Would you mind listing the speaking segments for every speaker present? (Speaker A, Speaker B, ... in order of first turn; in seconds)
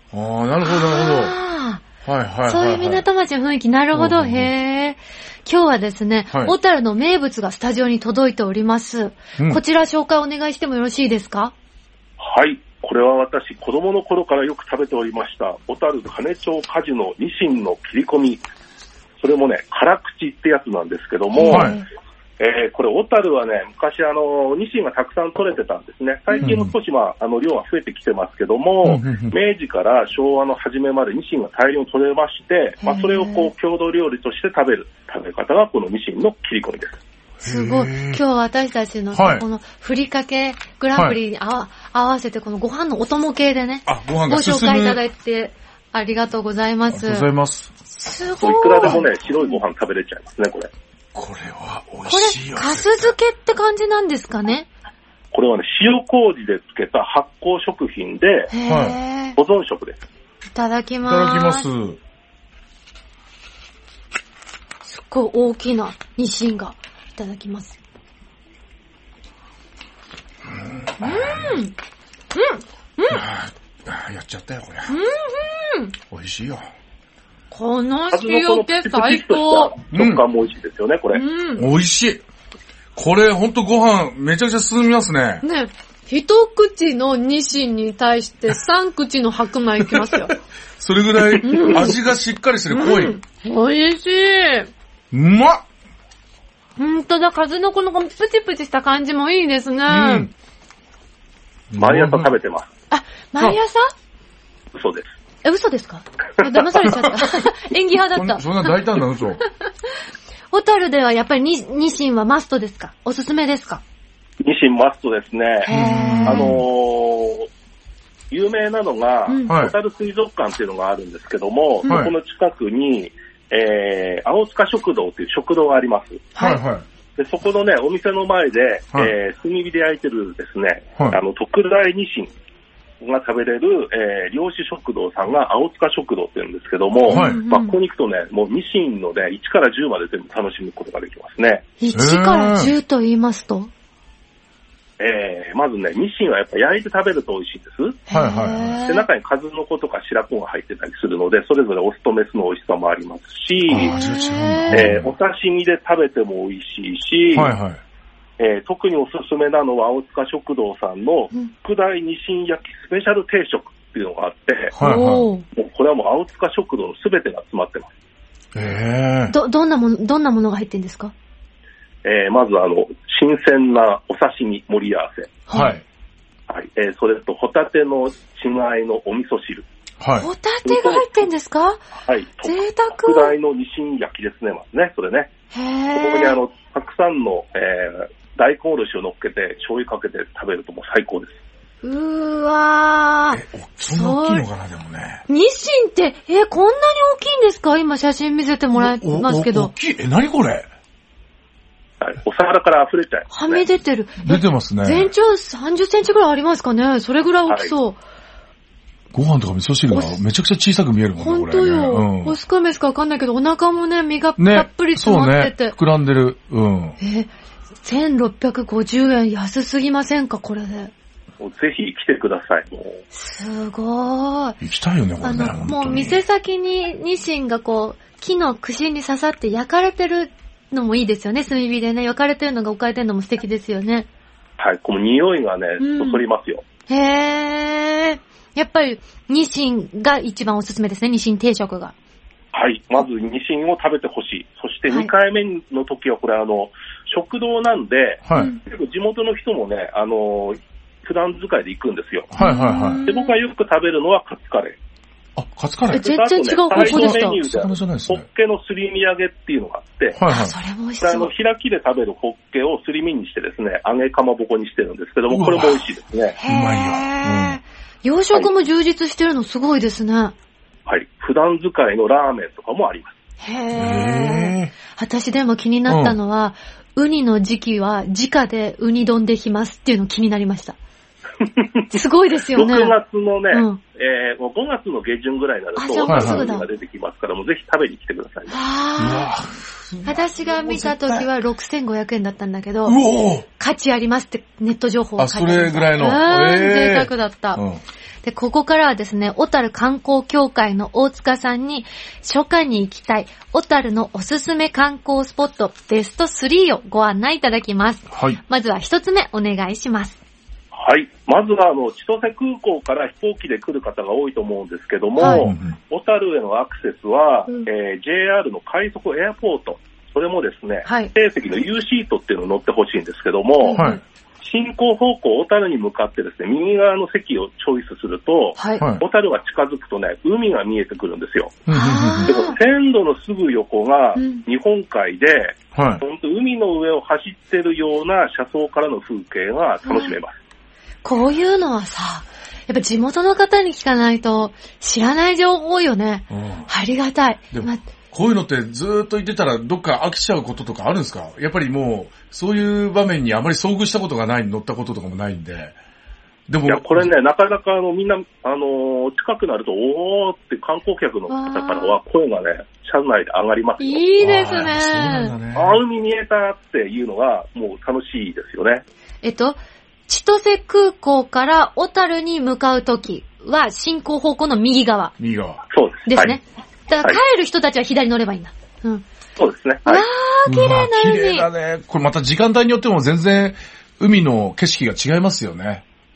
Speaker A: 0.1-1.4, 2.0-3.0, 3.9-4.5, 21.4-21.8, 26.4-26.7, 28.8-29.4, 37.4-38.2, 39.1-39.4, 43.9-45.0, 46.9-47.7, 51.1-53.1, 58.7-59.0, 61.0-62.0, 70.4-71.6, 73.1-74.9, 76.1-76.7, 79.9-80.2, 81.5-82.2, 82.9-85.4, 89.8-93.2, 95.1-95.6, 99.9-100.3, 101.7-102.3, 108.1-109.4, 115.7-116.6, 119.5-119.7, 121.8-122.1, 126.4-126.8, 137.1-137.4, 141.9-142.7, 148.1-148.8, 153.7-155.1, 157.3-157.8, 164.8-165.3, 168.5-169.3, 175.5-175.8, 180.0-180.3, 193.3-195.2, 198.7-200.7, 204.2-205.1, 209.1-212.4, 214.4-217.0, 224.6-226.2, 248.2-248.5, 252.3-253.0, 255.3-256.1, 256.7-258.2, 260.1-260.6, 265.3-265.8, 266.4-267.6, 273.7-274.7, 275.9-276.2, 286.1-286.5, 289.0-291.3, 292.8-293.5, 295.2-297.8, 308.1-308.4, 315.3-315.8, 323.7-324.0, 331.7-332.3, 335.7-336.0, 346.3-346.7, 347.5-355.8, 356.5-357.1, 364.2-365.8, 375.2-375.6, 380.4-385.8
Speaker B: 0.6-1.8, 2.5-11.5, 21.3-21.9, 32.8-33.5, 37.4-47.3, 47.9-49.6, 52.0-54.7, 58.5-59.4, 60.5-61.6, 64.8-67.8, 71.0-71.8, 72.3-73.2, 74.9-75.9, 77.5-79.7, 81.1-81.7, 85.4-90.3, 91.4-92.0, 92.7-94.7, 96.8-100.3, 102.9-103.9, 105.4-108.8, 110.5-113.8, 115.6-116.5, 126.3-126.6, 137.1-137.7, 141.8-143.7, 148.1-149.1, 153.7-154.9, 164.7-165.4, 169.3-171.1, 175.5-175.8, 180.2-181.8, 182.4-183.3, 185.5-186.4, 191.8-194.4, 195.3-199.7, 203.3-208.0, 209.9-210.1, 211.2-215.8, 217.0-220.9, 223.1-224.6, 225.2-234.1, 235.8-236.2, 236.9-241.9, 248.3-248.6, 252.4-253.3, 255.9-257.4, 260.3-261.3, 266.4-270.3, 273.4-280.8, 281.9-282.9, 283.5-283.8, 285.8-286.7, 288.5-289.3, 290.0-293.0, 293.6-297.6, 298.2-310.2, 315.2-315.4, 320.8-321.1, 323.6-324.0, 328.6-328.8, 331.7-332.6, 334.1-334.4, 339.8-340.1, 341.0-347.8, 361.3-362.0, 363.8-365.3, 369.2-375.1, 376.1-379.0, 379.8-381.5
Speaker C: 12.2-18.4, 19.2-21.8, 22.4-37.0, 48.4-50.7, 55.3-58.5, 59.3-60.0, 78.1-81.2, 101.8-102.7, 104.7-105.0, 114.4-115.7, 116.2-117.5, 118.3-126.3, 127.2-132.3, 133.0-141.7, 145.0-148.0, 148.8-153.9, 154.7-157.5, 158.4-164.7, 165.5-167.9, 172.0-175.3, 176.5-179.7, 180.6-181.1, 182.0-185.3, 185.9-191.4, 202.0-203.6, 207.5-207.7, 221.4-223.0, 234.6-236.6, 242.5-252.3, 253.0-254.8, 256.0-260.2, 261.0-266.4, 270.9-273.2, 281.4-281.9, 282.5-288.6, 310.7-323.8, 324.4-331.6, 332.2-340.4, 356.7-364.1, 365.5-368.8, 375.7-376.4, 379.4-380.0